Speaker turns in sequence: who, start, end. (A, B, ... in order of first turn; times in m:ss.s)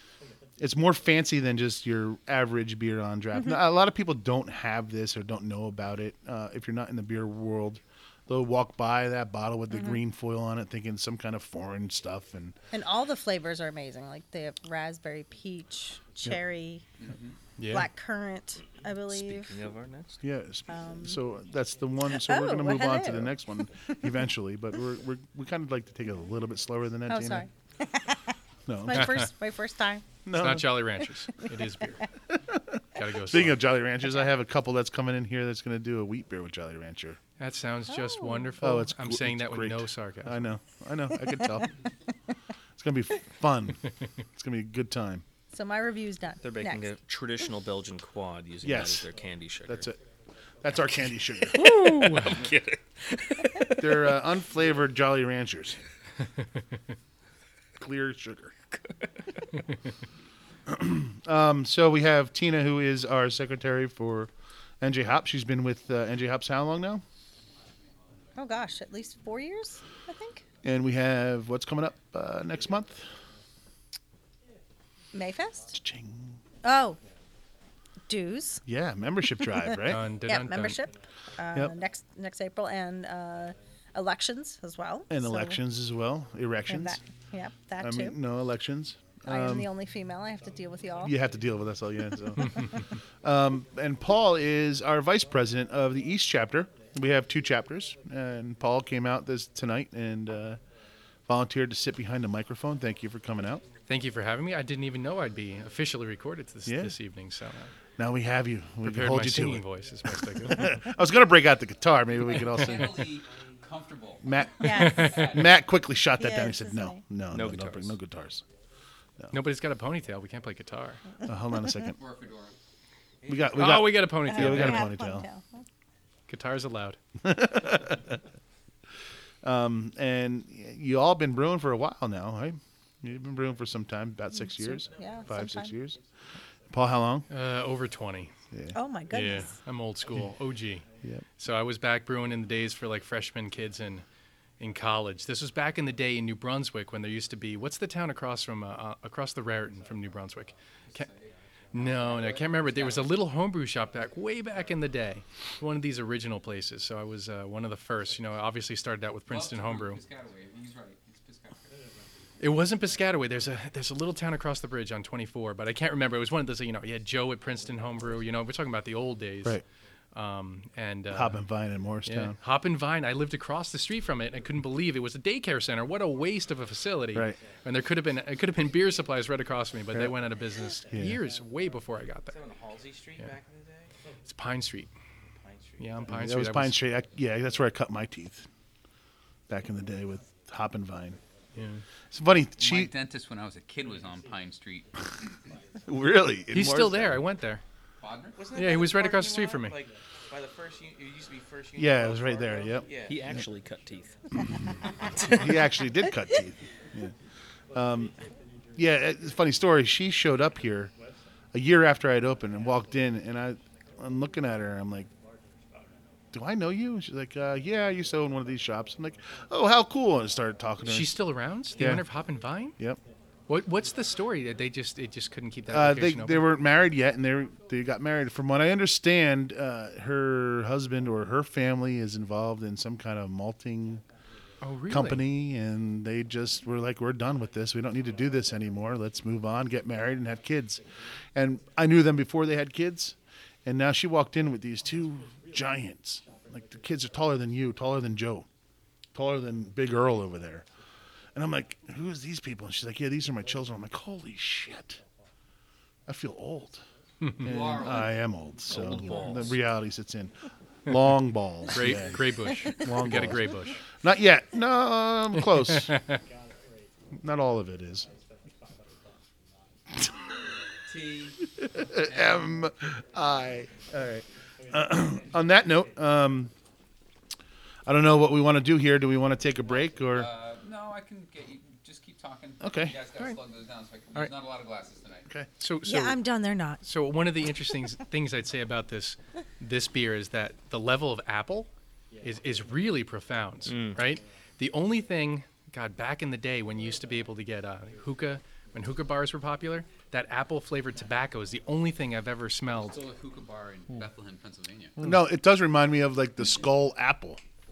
0:00.6-0:12.5 A
0:09.7-0:10.0 B
0:12.7-0:16.8 B
0:17.0-0:17.3 C
0:17.6-0:17.9 D
0:17.7-0:19.5 B
0:19.1-0:20.2 E
0:20.2-0:27.4 A
0:20.7-0:21.2 B
0:22.1-0:23.3 B
0:27.1-0:30.0 B
0:28.7-0:29.3 A
0:30.2-0:31.0 A
0:30.4-0:32.0 D
0:32.3-0:37.2 A
0:33.0-0:33.6 D
0:37.4-0:40.4 D
0:37.9-0:38.6 B
0:38.6-0:41.7 A
0:42.8-0:43.8 A
0:44.3-0:45.2 A
0:45.5-0:46.9 B
0:46.4-0:49.9 E
0:48.6-0:49.1 A
0:49.6-0:50.0 A
0:50.6-0:51.7 A
0:51.5-0:54.1 E
0:51.5-0:52.5 D
0:53.8-0:55.8 A
0:57.8-0:58.5 A
0:58.8-0:59.4 E
1:00.7-1:04.3 A
1:04.8-1:07.0 A
1:08.4-1:10.4 B
1:10.6-1:13.1 A
1:15.1-1:15.7 B
1:15.7-1:16.4 A
1:16.6-1:17.0 B
1:18.1-1:18.6 B
1:18.6-1:20.0 A
1:19.8-1:20.8 D
1:20.2-1:25.6 B
1:25.1-1:27.0 A
1:26.7-1:28.2 B
1:27.8-1:29.7 A
1:29.3-1:31.1 B
1:31.0-1:40.6 A
1:41.3-1:43.6 A
1:43.9-1:47.7 D
1:46.6-1:46.9 A
1:48.0-1:53.0 A
1:48.8-1:50.8 D
1:52.4-1:55.5 C
1:54.2-1:58.4 A
1:54.6-1:55.3 B
1:56.2-1:57.0 B
1:57.3-1:57.9 E
1:59.3-2:01.0 D
2:01.2-2:02.0 A
2:02.0-2:02.5 C
2:03.2-2:03.5 F
2:03.3-2:05.3 A
2:03.5-2:04.9 D
2:04.2-2:05.6 B
2:06.3-2:07.0 D
2:07.2-2:08.2 A
2:09.4-2:16.0 A
2:14.4-2:15.7 B
2:16.7-2:17.3 A
2:17.3-2:18.3 D
2:18.5-2:18.8 A
2:18.7-2:19.6 B
2:19.1-2:20.8 D
2:21.4-2:24.0 D
2:24.6-2:31.1 D
2:30.9-2:33.0 C
2:31.7-2:40.0 D
2:39.3-2:41.8 C
2:42.4-2:49.6 D
2:50.1-2:51.4 D
2:51.1-2:52.3 A
2:52.0-3:02.4 D
3:00.9-3:01.2 A
3:02.3-3:03.9 F
3:04.2-3:04.9 D
3:05.3-3:06.1 F
3:05.8-3:06.8 D
3:06.1-3:08.4 A
3:09.5-3:11.2 A
3:11.6-3:11.8 D
3:12.1-3:12.9 A
3:12.6-3:15.4 C
3:15.8-3:17.2 A
3:16.5-3:17.6 D
3:18.0-3:18.4 C
3:18.3-3:23.4 F
3:18.5-3:19.8 D
3:21.8-3:23.4 A
3:23.0-3:24.2 E
3:25.2-3:27.1 A
3:27.7-3:28.1 A
3:28.8-3:30.9 A
3:31.5-3:35.1 A
3:36.3-3:41.2 A
3:40.8-3:42.7 D
3:41.8-3:42.0 A
3:43.5-3:46.4 D
3:45.7-3:54.0 A
3:54.6-3:55.2 D
3:54.9-4:00.8 A
4:01.3-4:08.5 A
4:09.1-4:10.6 A
4:11.3-4:15.0 A
4:16.1-4:16.8 A
4:17.4-4:25.9 A
4:17.4-4:18.2 C
4:18.7-4:19.5 E
4:18.7-4:19.5 C
4:21.7-4:23.8 D
4:25.4-4:26.2 D
4:27.1-4:28.1 A
4:30.9-4:31.4 C
4:31.6-4:36.5 A
4:32.0-4:32.4 C
4:37.8-4:40.3 A
4:40.0-4:45.3 C
4:42.6-4:43.0 A
4:45.6-4:46.2 D
4:45.8-4:46.8 B
4:46.8-4:51.7 D
4:52.2-5:03.0 D
4:53.7-4:54.0 E
5:02.7-5:05.0 C
5:05.0-5:07.4 A